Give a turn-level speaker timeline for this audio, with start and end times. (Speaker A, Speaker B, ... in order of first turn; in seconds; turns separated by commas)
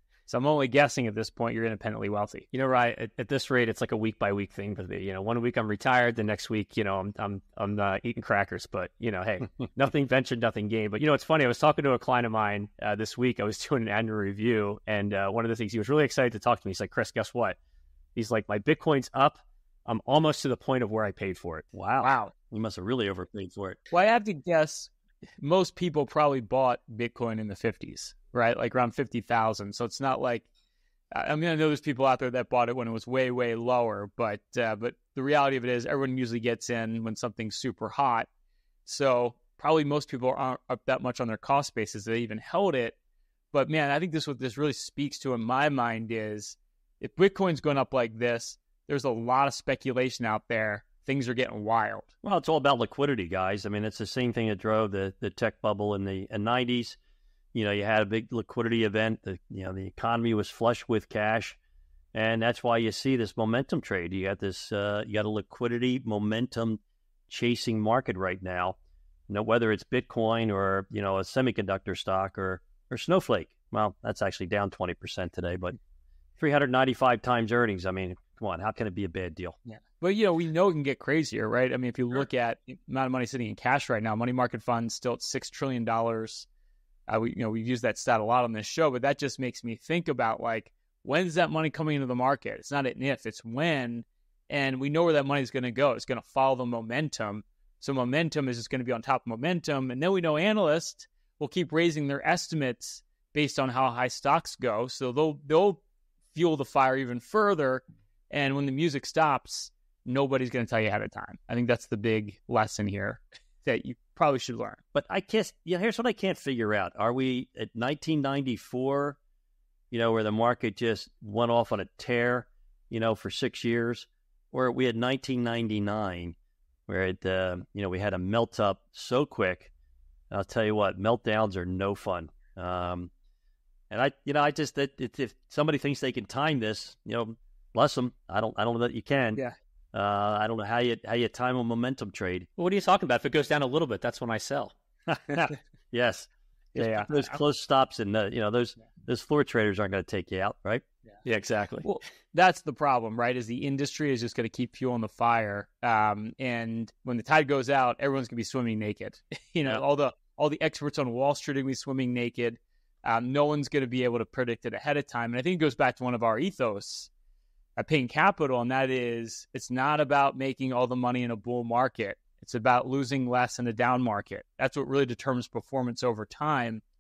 Speaker A: 0.3-2.5, Speaker B: 2.5-17.6, Speaker B: 18.2-21.6, Speaker C: 21.7-23.8, Speaker A: 22.0-22.3, Speaker A: 23.9-30.5, Speaker A: 31.1-38.3, Speaker A: 38.9-43.0, Speaker A: 43.5-52.1, Speaker C: 52.2-57.0, Speaker C: 57.5-61.6, Speaker C: 62.1-68.8, Speaker C: 69.3-75.8, Speaker C: 76.4-79.6, Speaker A: 79.7-86.5, Speaker A: 87.1-105.8, Speaker A: 106.3-114.8, Speaker C: 114.9-119.2, Speaker C: 119.9-126.4, Speaker C: 126.9-129.7, Speaker C: 130.3-133.1, Speaker C: 133.9-139.4, Speaker C: 139.9-142.5, Speaker B: 142.6-144.7, Speaker C: 145.1-150.8, Speaker A: 146.8-147.4, Speaker B: 151.2-151.9, Speaker A: 151.8-167.1, Speaker A: 167.8-176.8